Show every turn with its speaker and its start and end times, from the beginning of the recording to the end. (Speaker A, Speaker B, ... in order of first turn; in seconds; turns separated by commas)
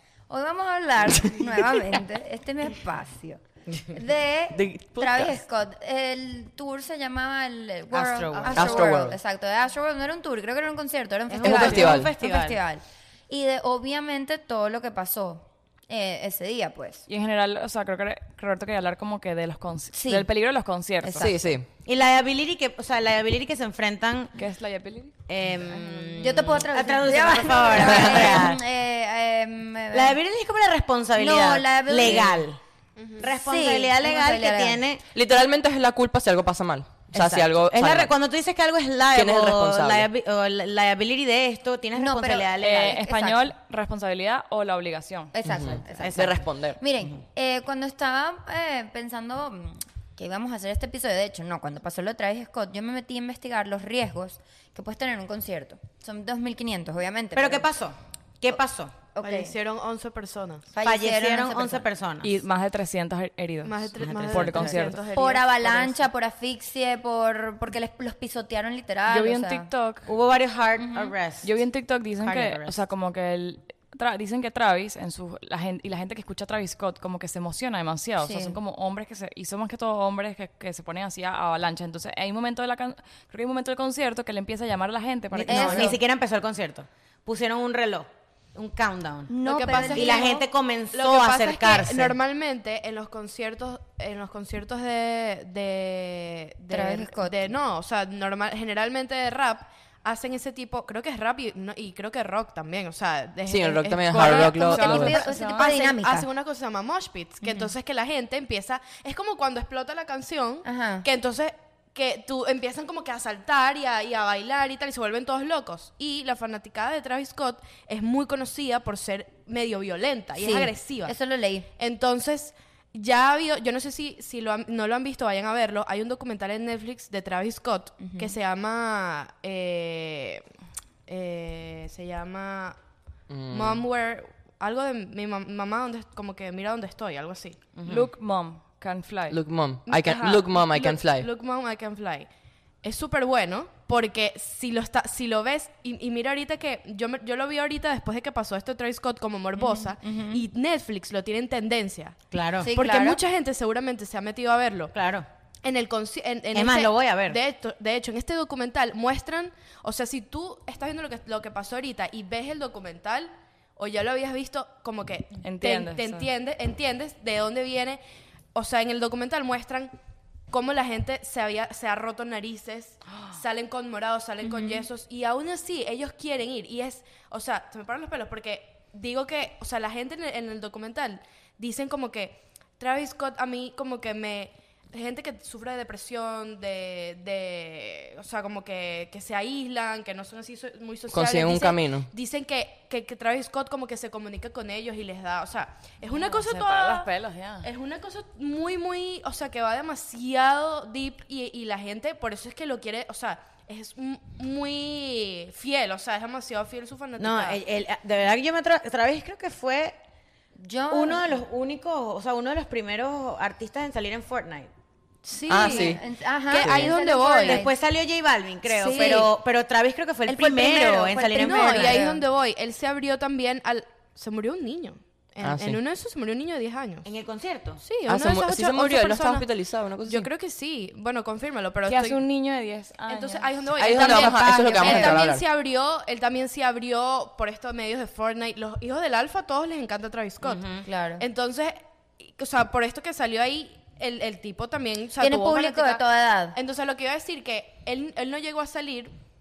Speaker A: 0.3-17.1, Speaker B: 1.1-1.9, Speaker B: 4.5-5.4, Speaker C: 7.9-8.7, Speaker D: 8.3-8.8, Speaker B: 8.5-9.2, Speaker C: 11.3-12.6, Speaker B: 11.4-12.1, Speaker E: 17.1-21.3, Speaker A: 19.9-20.3, Speaker A: 21.0-21.6, Speaker B: 21.2-21.7, Speaker C: 21.9-24.4, Speaker E: 24.4-26.1, Speaker C: 25.3-28.6, Speaker A: 26.2-30.2, Speaker C: 29.9-32.6, Speaker A: 31.2-32.5, Speaker D: 33.0-33.3, Speaker C: 33.2-35.0, Speaker A: 33.2-34.8, Speaker B: 35.1-38.1, Speaker C: 37.1-43.0, Speaker B: 39.1-40.1, Speaker A: 42.0-43.5, Speaker E: 42.6-45.3, Speaker A: 45.3-57.7, Speaker B: 45.5-46.8, Speaker C: 46.0-46.4, Speaker C: 57.4-59.0, Speaker A: 59.1-59.5, Speaker D: 59.2-60.7, Speaker A: 60.7-61.9, Speaker C: 60.8-62.4, Speaker E: 62.2-65.0, Speaker D: 63.6-66.0, Speaker C: 64.0-64.9, Speaker A: 65.1-69.7, Speaker E: 69.1-70.1, Speaker C: 70.1-71.6, Speaker A: 70.8-71.1, Speaker E: 71.4-86.0, Speaker C: 72.2-72.8, Speaker A: 78.2-78.6, Speaker C: 85.3-89.3, Speaker A: 85.5-86.0, Speaker A: 89.3-90.4, Speaker D: 89.5-121.2, Speaker C: 89.9-92.2, Speaker A: 96.7-97.5, Speaker B: 103.5-105.2, Speaker E: 104.1-105.7, Speaker A: 104.5-106.3, Speaker A: 107.4-107.7, Speaker A: 110.7-111.1, Speaker A: 120.4-121.7, Speaker D: 121.8-130.4, Speaker A: 128.0-128.3, Speaker D: 131.1-132.8, Speaker B: 133.3-133.8, Speaker D: 133.5-137.6, Speaker C: 137.8-138.1, Speaker E: 137.9-139.4, Speaker B: 139.3-141.3, Speaker D: 139.9-142.3, Speaker D: 142.8-152.2, Speaker A: 149.6-150.4, Speaker C: 152.3-152.7, Speaker A: 152.6-153.2, Speaker D: 152.7-154.9, Speaker C: 154.9-155.3, Speaker D: 155.6-168.0, Speaker C: 156.5-157.4, Speaker E: 165.4-166.3, Speaker D: 168.5-169.9, Speaker D: 170.5-197.1, Speaker E: 173.1-173.4, Speaker A: 174.4-174.9, Speaker B: 191.1-192.1, Speaker E: 196.1-197.7, Speaker D: 197.6-207.6, Speaker C: 207.2-210.0, Speaker A: 210.6-211.3, Speaker C: 210.9-214.7, Speaker D: 215.2-217.7, Speaker B: 215.5-216.0, Speaker A: 215.5-217.7, Speaker B: 216.6-216.9, Speaker C: 217.4-222.1, Speaker A: 218.7-219.3, Speaker D: 218.9-219.2, Speaker A: 220.3-222.2, Speaker D: 221.4-227.1, Speaker B: 225.4-225.8, Speaker C: 227.0-227.8, Speaker D: 227.8-229.5, Speaker B: 228.1-230.3, Speaker D: 230.1-232.2, Speaker E: 231.9-233.5, Speaker D: 233.1-240.7, Speaker B: 233.8-235.4, Speaker C: 240.4-240.8, Speaker A: 240.8-241.2, Speaker D: 241.2-246.0, Speaker A: 245.2-246.6, Speaker D: 246.5-249.1